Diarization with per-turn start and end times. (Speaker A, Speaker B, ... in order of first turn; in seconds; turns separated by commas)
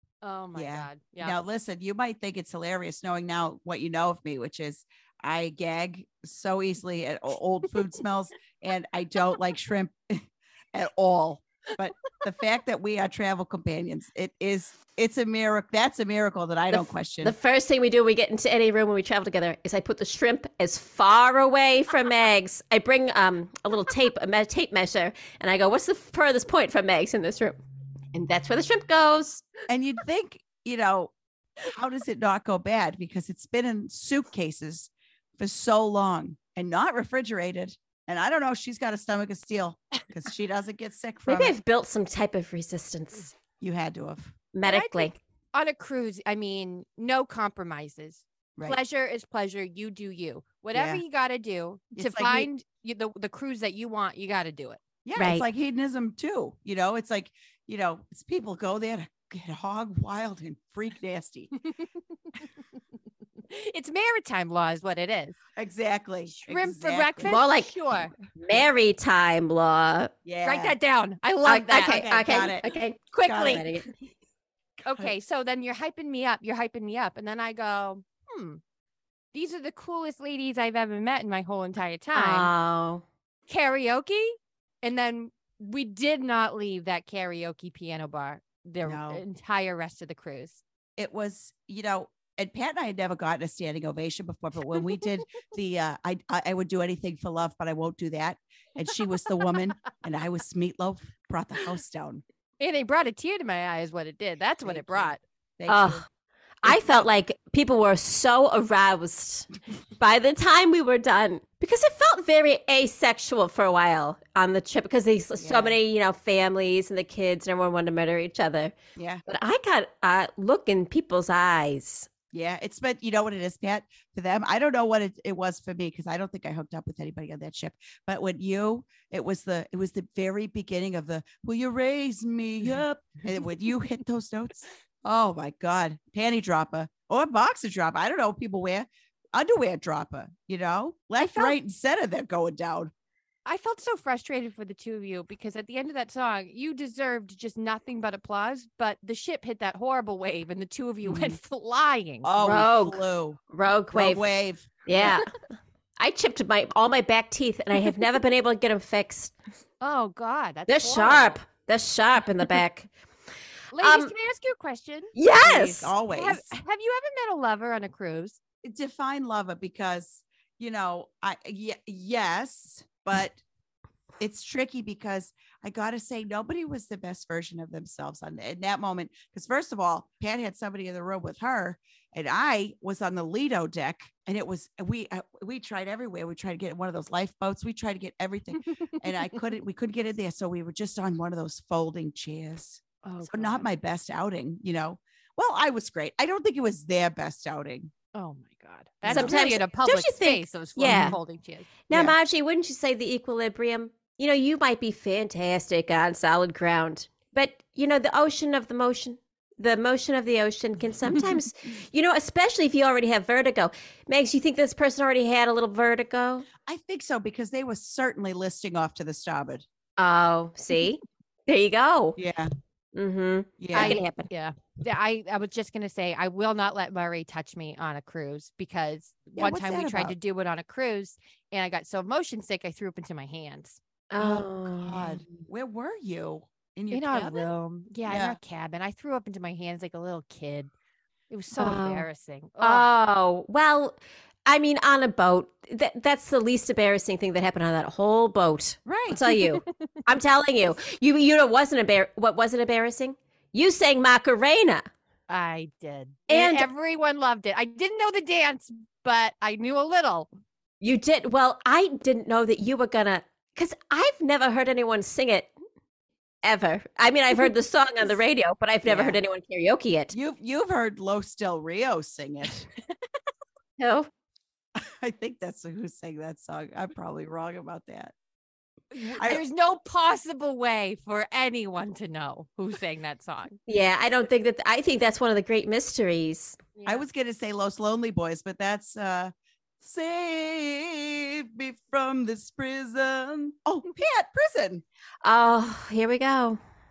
Speaker A: 0.2-1.4, Speaker B: 0.5-17.4, Speaker C: 16.7-27.6, Speaker C: 28.1-29.4, Speaker B: 29.7-41.6, Speaker C: 41.3-43.3, Speaker B: 43.6-44.4, Speaker C: 44.5-45.1, Speaker A: 44.6-54.8, Speaker B: 50.7-51.0, Speaker B: 52.0-52.5, Speaker B: 55.0-61.5, Speaker C: 55.2-55.5, Speaker A: 63.5-65.4, Speaker B: 65.6-67.4, Speaker A: 66.3-68.1, Speaker C: 67.2-67.8, Speaker C: 68.3-70.1, Speaker B: 70.2-70.8, Speaker A: 70.4-72.0, Speaker C: 71.5-73.9, Speaker B: 71.8-72.7, Speaker B: 73.3-73.6, Speaker B: 74.8-75.1, Speaker A: 74.8-78.6, Speaker A: 79.3-82.5, Speaker C: 82.2-83.0, Speaker A: 83.5-90.6, Speaker B: 88.8-89.2, Speaker B: 91.0-102.2, Speaker A: 102.6-105.2, Speaker B: 104.6-106.0, Speaker C: 105.7-106.0, Speaker C: 106.6-122.1, Speaker B: 106.6-107.1, Speaker B: 115.4-115.8, Speaker B: 119.0-119.2, Speaker B: 122.3-142.9, Speaker A: 141.2-141.6, Speaker A: 143.5-152.5, Speaker B: 151.0-151.4, Speaker B: 152.2-153.4, Speaker C: 152.4-154.3, Speaker B: 153.9-155.2, Speaker C: 154.8-155.3, Speaker C: 156.0-159.3, Speaker A: 159.8-161.4, Speaker C: 160.7-162.9, Speaker A: 163.7-165.1, Speaker C: 163.8-164.1, Speaker C: 165.2-165.9, Speaker B: 165.4-166.5, Speaker A: 166.1-168.4, Speaker B: 168.6-173.4, Speaker B: 174.2-197.9, Speaker A: 193.0-193.6, Speaker A: 198.1-201.7, Speaker B: 199.0-199.4, Speaker C: 199.1-201.2, Speaker B: 200.8-201.2, Speaker C: 201.9-216.5, Speaker B: 201.9-202.2, Speaker B: 216.7-219.7, Speaker C: 220.0-222.2, Speaker B: 222.2-222.5, Speaker C: 222.9-224.3, Speaker B: 223.6-224.0, Speaker A: 223.7-233.8, Speaker B: 229.3-230.2, Speaker C: 234.1-235.2, Speaker B: 234.2-237.5, Speaker A: 236.9-240.7, Speaker B: 238.1-238.4, Speaker A: 241.3-242.9, Speaker C: 241.6-242.1, Speaker C: 242.6-254.9, Speaker B: 248.8-249.2, Speaker A: 249.3-249.6, Speaker A: 255.3-260.3, Speaker C: 256.3-256.7, Speaker C: 260.8-265.5, Speaker C: 266.4-270.1, Speaker B: 268.9-269.2, Speaker B: 270.1-272.7, Speaker C: 273.8-274.1, Speaker B: 274.8-278.1, Speaker B: 278.9-279.4, Speaker A: 279.0-283.6, Speaker C: 283.7-286.6, Speaker A: 286.8-287.1, Speaker B: 286.9-294.8, Speaker C: 295.2-296.6